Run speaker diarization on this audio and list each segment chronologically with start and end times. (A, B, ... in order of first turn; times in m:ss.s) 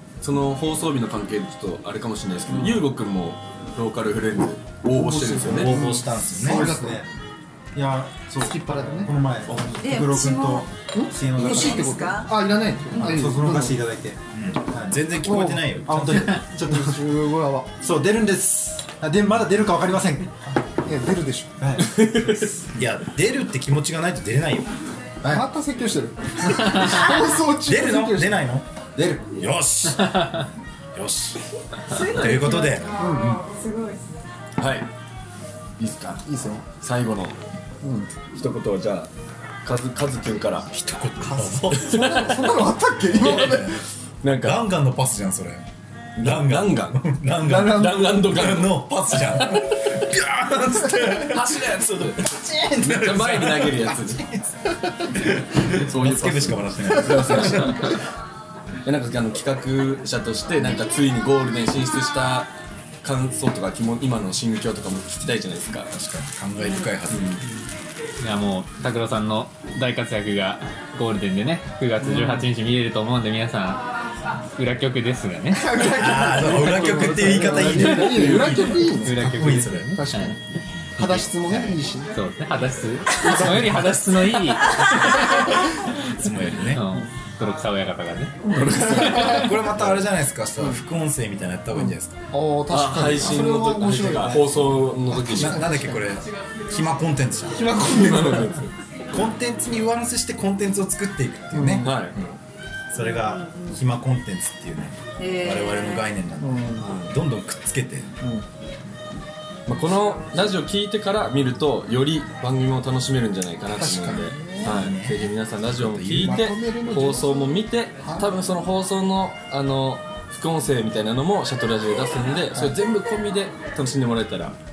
0:00.2-0:05.8 A
0:04.9-0:07.0 B
0:05.4-0:06.8 C
0:06.3-0:07.1 D
0:07.7-0:12.2 D
0:08.4-0:09.1 B
0:09.7-0:10.7 E
0:10.9-0:13.8 B
0:11.2-0:12.3 E
0:12.9-0:15.0 D
0:14.3-0:16.4 C
0:15.2-0:17.7 B
0:15.8-0:17.0 D
0:17.8-0:20.4 D
0:20.8-0:21.5 B
0:21.6-0:22.6 D
0:21.8-0:22.6 A
0:22.7-0:24.7 C
0:25.2-0:28.4 B
0:27.5-0:28.7 C
0:28.9-0:29.4 D
0:29.3-0:30.3 C
0:30.9-0:31.4 C
0:31.8-0:34.2 E
0:31.9-0:32.9 C
0:32.1-0:32.5 A
0:33.0-0:33.4 B
0:34.6-0:34.9 A
0:35.8-0:36.2 A
0:36.2-0:36.6 B
0:36.8-0:37.4 A
0:37.8-0:38.1 B
0:38.3-0:39.1 A
0:39.6-0:40.7 A
0:40.7-0:42.0 C
0:41.2-0:43.8 B
0:41.7-0:43.7 A
0:43.1-0:43.8 C
0:44.2-0:44.6 A
0:44.4-0:45.7 C
0:46.2-0:49.7 A
0:46.2-0:58.0 C
0:51.0-0:54.2 A
0:55.8-0:58.0 A
0:58.8-1:02.5 A
1:03.0-1:05.9 A
1:05.9-1:07.4 C
1:07.1-1:07.4 A
1:08.2-1:13.8 F
1:12.0-1:12.5 B
1:14.6-1:15.9 F
1:15.5-1:20.4 B
1:15.9-1:20.0 C
1:17.6-1:18.8 A
1:18.9-1:20.4 F
1:21.0-1:21.8 C
1:21.0-1:22.2 B
1:22.1-1:28.9 F
1:23.2-1:23.7 B
1:26.2-1:26.8 C
1:28.5-1:30.0 A
1:28.6-1:29.4 B
1:28.9-1:32.2 C
1:31.7-1:36.0 B
1:32.7-1:35.6 A
1:35.2-1:37.7 C
1:37.5-1:38.6 B
1:37.8-1:38.7 A
1:39.1-1:41.9 C
1:41.5-1:42.0 B
1:41.8-1:42.2 A
1:42.9-1:48.1 C
1:43.2-1:43.7 E
1:45.2-1:46.1 E
1:46.4-1:46.8 B
1:46.8-1:47.1 A
1:49.7-2:04.6 A
1:53.7-1:54.8 B
1:54.6-1:56.5 C
1:56.2-1:58.3 B